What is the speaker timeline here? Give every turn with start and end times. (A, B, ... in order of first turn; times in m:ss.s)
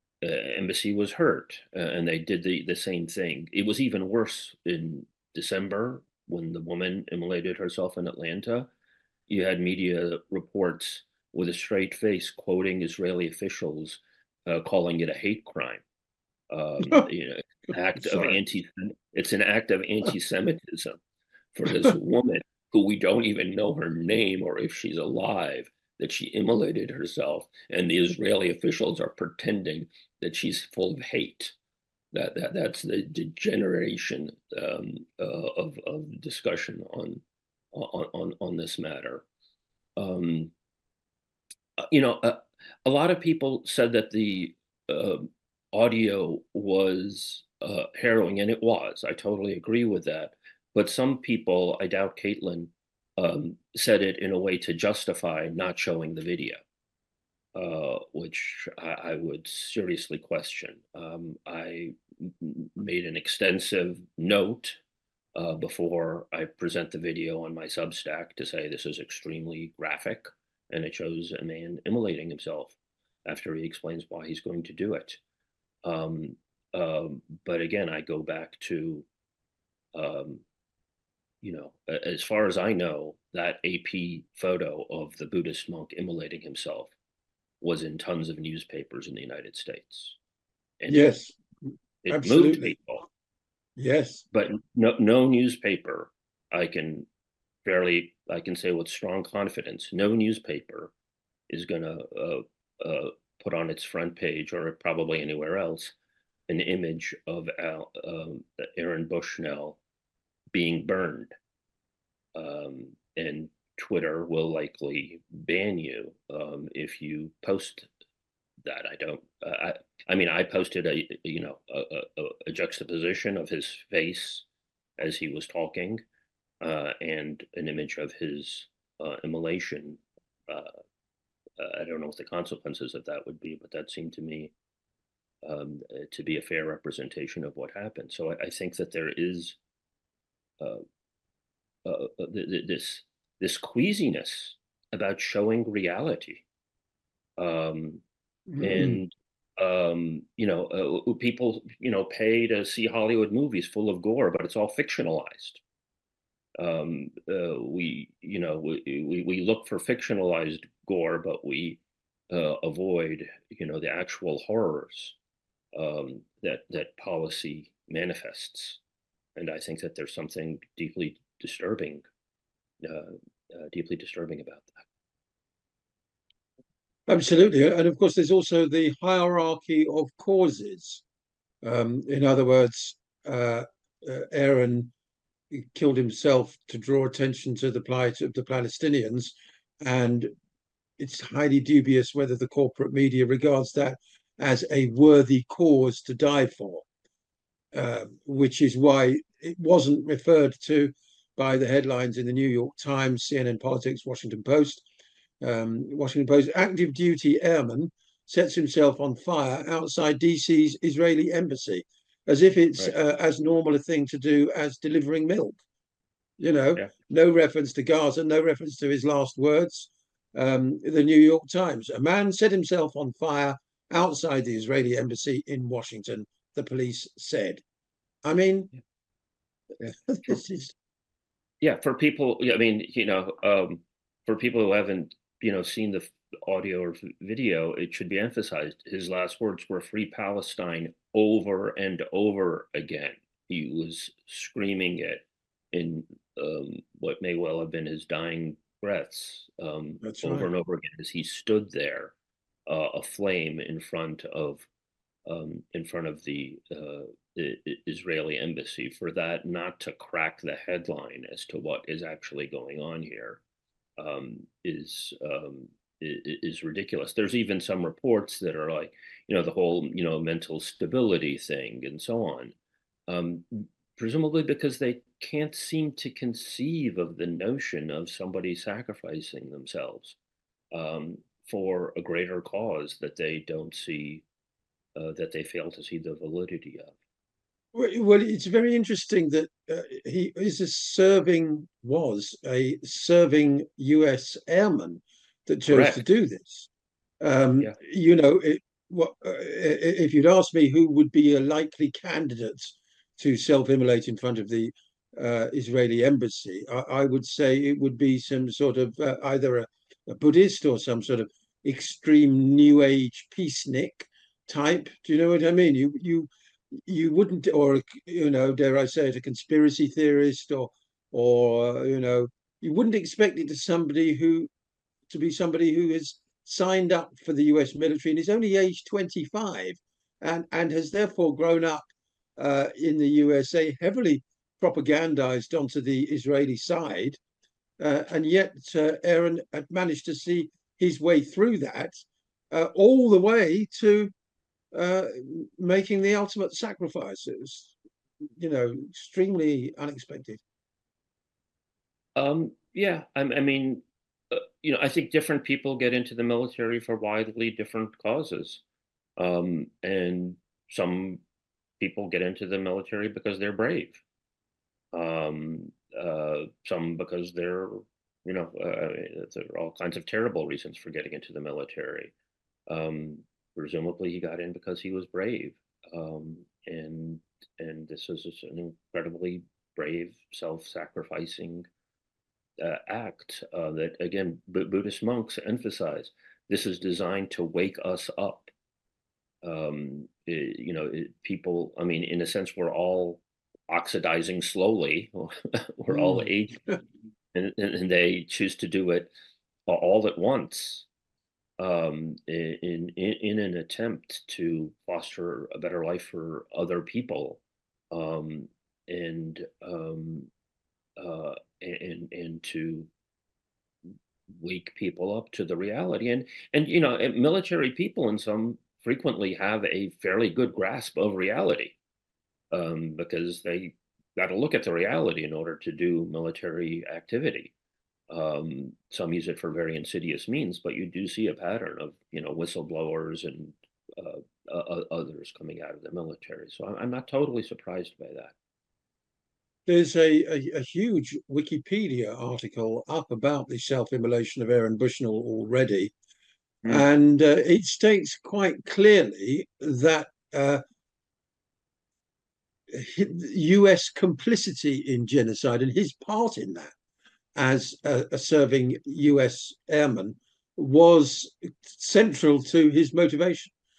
0:00.2-0:08.7 A
0:09.3-0:15.8 A
0:16.5-0:21.0 A
0:18.0-0:18.4 B
0:21.5-0:31.5 A
0:32.1-0:37.2 A
0:37.7-0:39.2 A
0:40.0-0:40.5 A
0:41.8-0:56.6 A
0:57.5-1:04.8 A
1:05.4-1:15.2 A
1:15.8-1:19.0 A
1:19.9-1:20.4 A
1:21.4-1:26.9 A
1:27.6-1:30.2 A
1:30.8-1:31.1 A
1:30.9-1:31.4 B
1:32.0-1:33.0 A
1:32.1-1:32.8 B
1:33.8-1:34.2 B
1:34.3-1:37.1 A
1:37.6-1:40.9 A
1:41.5-1:45.9 A
1:46.5-1:49.8 A
1:50.5-1:51.3 A
1:52.4-1:57.9 A
1:58.6-2:04.4 A
2:05.0-2:06.0 A
2:06.6-2:10.7 A
2:11.6-2:14.5 A
2:15.4-2:19.6 A
2:21.8-2:26.4 A
2:27.4-2:28.0 A
2:28.5-2:29.0 B
2:28.6-2:35.6 A
2:36.6-2:45.2 A
2:45.7-2:48.8 A
2:49.4-2:52.0 A
2:52.8-2:54.8 A
2:57.1-3:01.0 B
3:01.6-3:04.9 B
3:05.5-3:10.3 B
3:11.0-3:16.8 B
3:17.7-3:24.8 B
3:25.4-3:35.6 B
3:36.4-3:47.6 B
3:48.2-3:48.7 B
3:49.8-3:50.7 B
3:51.6-4:12.1 A
4:10.0-4:10.5 B
4:12.7-4:14.7 A
4:15.2-4:23.4 A
4:24.0-4:32.5 A
4:33.1-4:40.2 A
4:40.7-4:44.2 A
4:45.0-4:46.9 A
4:47.7-4:56.7 B
4:55.7-4:56.0 A
4:57.2-5:24.5 B
5:25.1-5:37.2 B
5:37.8-5:44.1 B
5:44.7-5:47.7 B
5:48.4-5:50.4 B
5:52.2-5:58.6 A
5:59.2-6:01.2 A
6:01.8-6:04.0 A
6:04.9-6:12.1 A
6:12.7-6:21.7 A
6:22.6-6:28.5 A
6:29.4-6:36.6 A
6:35.9-6:36.3 B
6:37.3-6:39.1 A
6:39.7-6:40.9 A
6:41.6-6:50.3 A
6:51.0-6:52.9 A
6:54.3-7:01.7 A
7:02.5-7:07.5 A
7:08.1-7:18.3 A
7:19.6-7:25.9 B
7:26.6-7:30.6 B
7:32.7-7:36.7 B
7:37.4-7:43.5 B